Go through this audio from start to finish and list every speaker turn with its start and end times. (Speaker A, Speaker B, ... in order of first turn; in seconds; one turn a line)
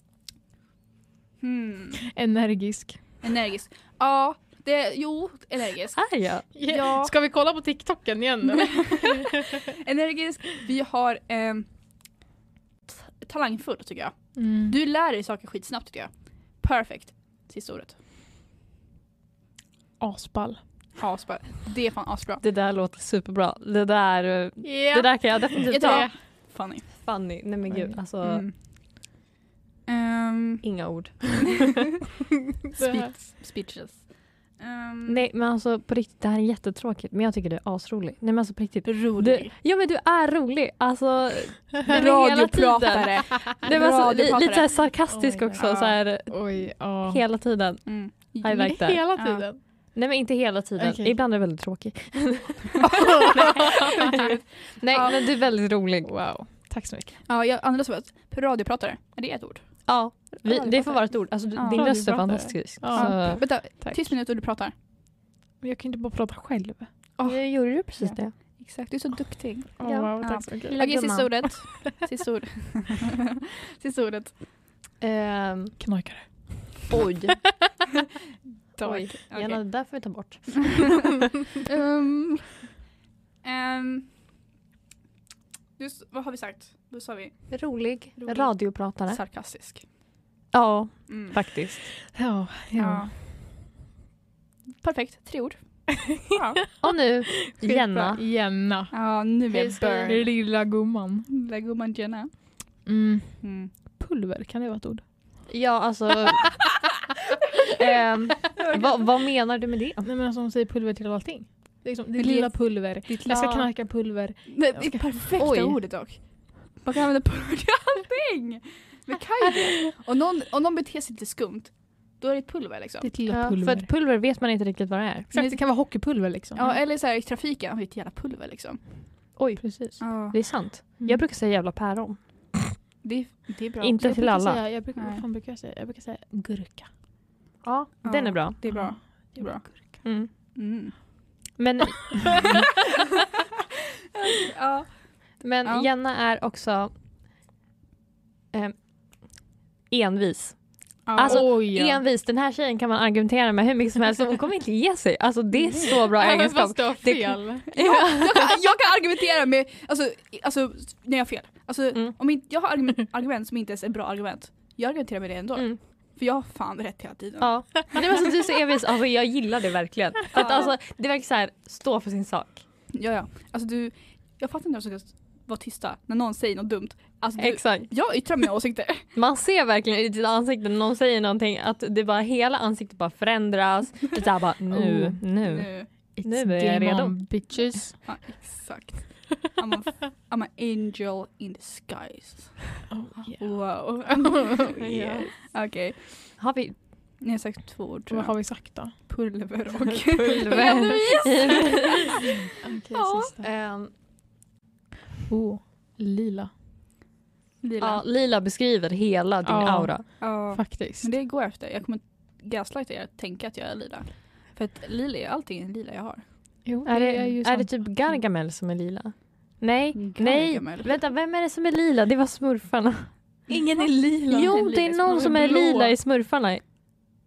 Speaker A: 1.4-2.0
Speaker B: 2.0-3.1
Speaker A: 3.2-7.1
Speaker C: 5.9-6.5
Speaker B: 6.5-9.7
Speaker A: 8.5-11.7
Speaker A: 12.9-18.0
Speaker B: 14.3-14.8
Speaker B: 20.0-20.6
Speaker A: 20.9-22.4
Speaker C: 22.4-28.4
Speaker B: 24.6-26.1
Speaker A: 25.6-27.1
Speaker B: 27.7-28.0
Speaker A: 28.2-28.5
Speaker A: 29.9-30.7
Speaker C: 30.6-31.7
Speaker B: 32.7-33.1
Speaker A: 32.7-35.2
Speaker C: 35.1-49.2
Speaker A: 38.8-39.5
Speaker A: 41.8-44.9
Speaker B: 45.0-47.2
Speaker A: 45.5-46.0
Speaker A: 47.8-49.5
Speaker B: 48.5-49.6
Speaker C: 49.9-56.1
Speaker B: 50.8-51.1
Speaker B: 53.0-53.4
Speaker A: 53.4-55.2
Speaker B: 56.0-57.2
Speaker A: 57.2-61.9
Speaker C: 59.9-63.4
Speaker B: 61.5-64.1
Speaker A: 62.8-64.7
Speaker B: 65.6-66.9
Speaker A: 67.2-73.2
Speaker C: 67.2-68.3
Speaker B: 69.8-71.5
Speaker C: 69.8-71.5
Speaker A: 73.8-74.4
Speaker C: 75.0-75.8
Speaker B: 75.8-77.7
Speaker C: 76.9-77.4
Speaker A: 76.9-77.4
Speaker A: 78.8-80.2
Speaker C: 78.8-80.9
Speaker A: 81.2-82.7
Speaker A: 83.4-84.2
Speaker A: 85.8-89.9
Speaker C: 87.5-89.2
Speaker C: 90.5-91.9
Speaker A: 91.1-91.4
Speaker B: 92.1-93.1
Speaker A: 92.8-93.1
Speaker A: 94.8-96.7
Speaker B: 96.7-98.9
Speaker C: 96.8-98.2
Speaker A: 98.9-100.3
Speaker B: 99.5-101.3
Speaker C: 99.5-100.1
Speaker A: 101.3-102.8
Speaker B: 102.8-105.0
Speaker A: 103.4-103.7
Speaker C: 105.5-106.6
Speaker C: 107.8-110.1
Speaker A: 108.6-109.0
Speaker B: 110.0-115.8
Speaker A: 112.2-112.7
Speaker C: 113.2-113.7
Speaker A: 114.5-123.1
Speaker B: 123.0-123.9
Speaker C: 123.3-125.3
Speaker B: 125.3-126.7
Speaker A: 125.3-129.4
Speaker C: 129.3-132.2
Speaker B: 129.6-130.0
Speaker A: 130.0-130.4
Speaker B: 131.0-131.2
Speaker A: 133.0-134.1
Speaker C: 133.8-134.6
Speaker B: 134.0-136.9
Speaker A: 134.9-135.2
Speaker C: 137.6-139.0
Speaker A: 138.0-141.5
Speaker B: 138.7-139.6
Speaker C: 139.8-140.3
Speaker C: 141.6-142.4
Speaker A: 144.1-145.9
Speaker C: 145.4-146.9
Speaker C: 148.5-158.5
Speaker A: 151.0-151.6
Speaker B: 151.2-152.0
Speaker B: 155.8-157.7
Speaker A: 157.8-168.2
Speaker C: 165.5-165.8
Speaker C: 167.4-172.6
Speaker A: 170.3-170.7
Speaker A: 172.9-179.1
Speaker C: 177.4-177.9
Speaker C: 179.1-187.2
Speaker B: 184.7-185.4
Speaker A: 185.4-185.9
Speaker B: 186.1-188.0
Speaker A: 188.0-196.5
Speaker B: 192.9-195.3
Speaker C: 194.8-195.3
Speaker C: 196.4-196.8
Speaker A: 197.2-203.4
Speaker B: 198.1-198.9
Speaker C: 200.1-201.9
Speaker B: 200.5-201.3
Speaker B: 202.6-203.4
Speaker C: 203.4-203.9
Speaker B: 205.3-206.5
Speaker A: 207.6-208.0
Speaker C: 207.8-210.0
Speaker B: 209.4-211.1
Speaker A: 210.2-216.2
Speaker B: 216.6-218.2
Speaker C: 216.8-223.4
Speaker A: 219.9-221.0
Speaker B: 223.5-225.9
Speaker A: 223.5-225.9
Speaker C: 224.3-226.6